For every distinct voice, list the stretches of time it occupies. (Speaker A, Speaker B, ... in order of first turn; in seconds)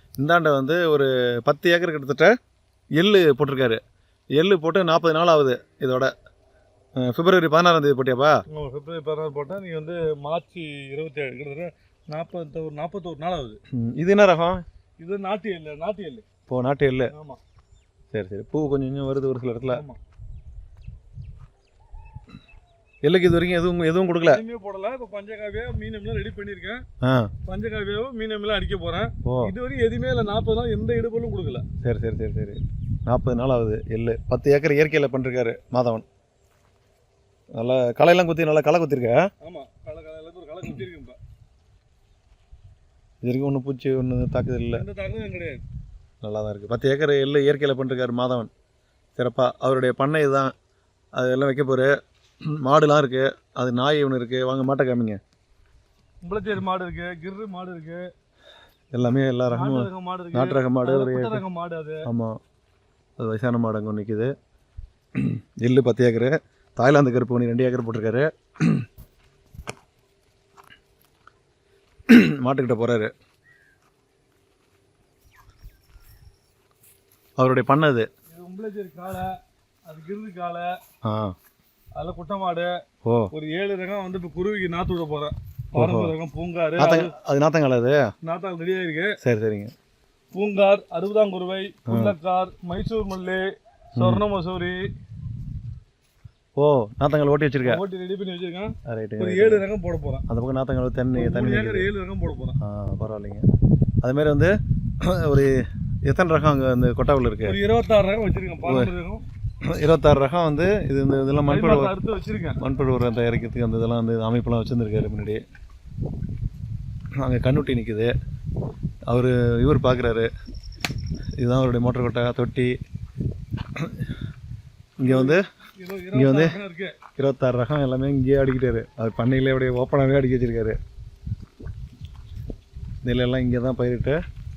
Speaker A: 0.2-2.3, 3.0-3.8, 4.4-6.1, 7.0-8.4, 13.7-14.6, 16.5-17.1, 18.1-19.8, 23.1-24.4, 27.0-27.3, 29.2-29.5, 31.8-36.0, 37.6-39.2, 43.2-44.9, 46.2-48.5, 49.2-50.5, 51.2-51.9, 52.5-55.2, 58.9-61.4, 62.0-62.4, 63.2-64.3, 65.2-68.8, 72.1-73.1, 77.4-78.1, 81.1-81.3, 83.0-83.3, 85.8-86.1, 86.8-88.0, 89.2-89.7, 91.9-92.1, 94.0-94.2, 96.6-97.8, 98.9-99.7, 100.3-101.9, 102.6-103.4, 104.0-107.6, 108.7-108.9, 109.7-111.9, 112.6-115.4, 117.2-118.1, 119.1-120.3, 121.4-122.7, 123.8-124.1, 125.0-125.4, 126.1-126.6, 127.2-130.8, 133.0-134.2
Speaker B: 8.5-13.6, 15.0-16.2, 17.1-17.4, 19.7-20.0, 24.3-26.8, 27.5-31.7, 39.4-41.2, 44.7-45.6, 56.2-58.0, 59.5-62.1, 78.3-80.8, 82.0-82.7, 83.3-87.1, 88.2-89.2, 90.3-93.4, 94.0-94.8, 97.6-100.2, 101.2-102.6, 107.5-109.2, 111.5-112.6, 125.0-127.0